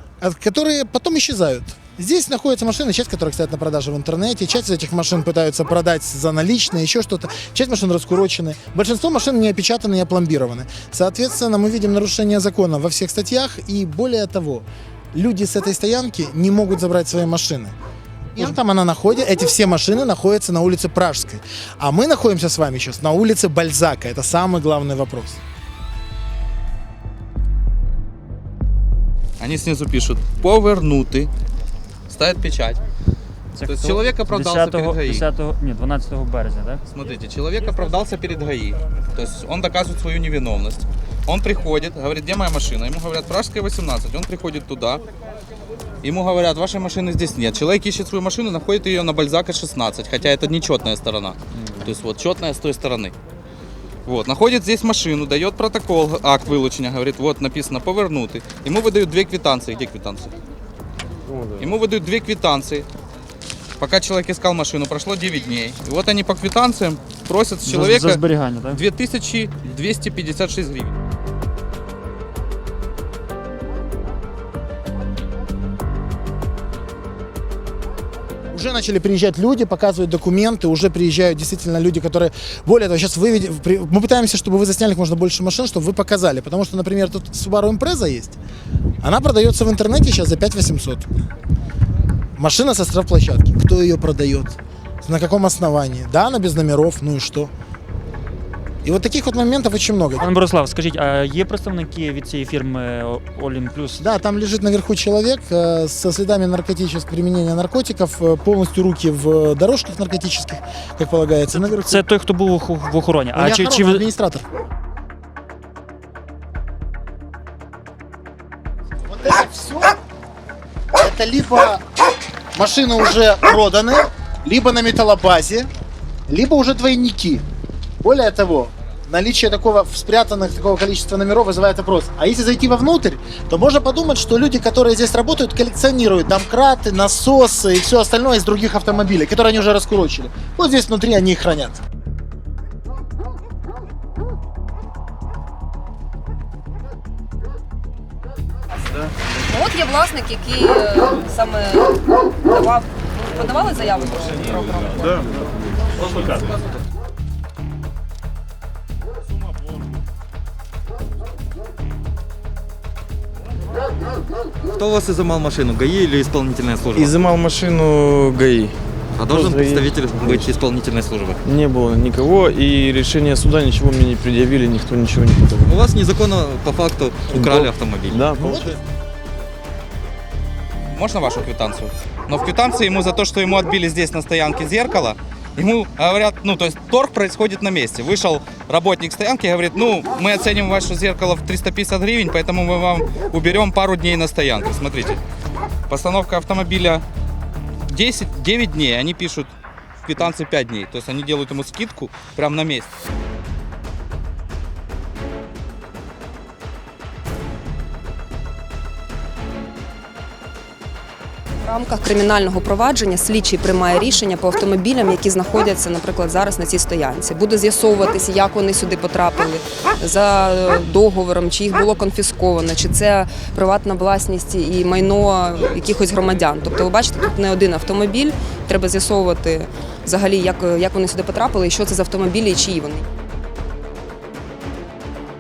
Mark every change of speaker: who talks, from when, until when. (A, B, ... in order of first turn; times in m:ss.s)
0:00.2-0:17.8 A
0:18.4-0:25.4 A
0:29.4-0:31.3 B
0:32.1-0:32.8 B
0:33.6-0:36.8 C
0:33.6-0:35.3 B
0:36.9-0:45.0 B
0:46.0-0:53.2 B
0:54.0-1:00.3 B
1:01.6-1:02.9 B
1:03.8-1:10.9 B
1:07.6-1:08.8 C
1:18.5-1:28.4 A
1:29.0-1:31.1 A
1:32.4-1:37.5 A
1:38.8-1:40.3 A
1:40.2-1:44.0 C
1:44.0-1:52.0 A
1:51.5-1:54.0 C
1:53.3-1:54.4 A
1:59.1-1:59.9 A
2:01.0-2:01.8 A
2:02.6-2:05.7 A
2:06.3-2:07.4 A
2:08.0-2:21.8 A
2:29.4-2:35.3 D
2:44.7-2:47.1 E
2:47.0-2:50.6 F
2:49.2-2:51.4 E
2:51.4-2:55.8 F
2:55.7-2:58.2 E
2:57.3-2:58.7 F
2:58.4-2:58.8 A
3:00.9-3:15.2 B
3:15.9-3:17.0 B
3:17.9-3:19.5 B
3:20.0-3:23.0 B
3:31.6-3:53.0 D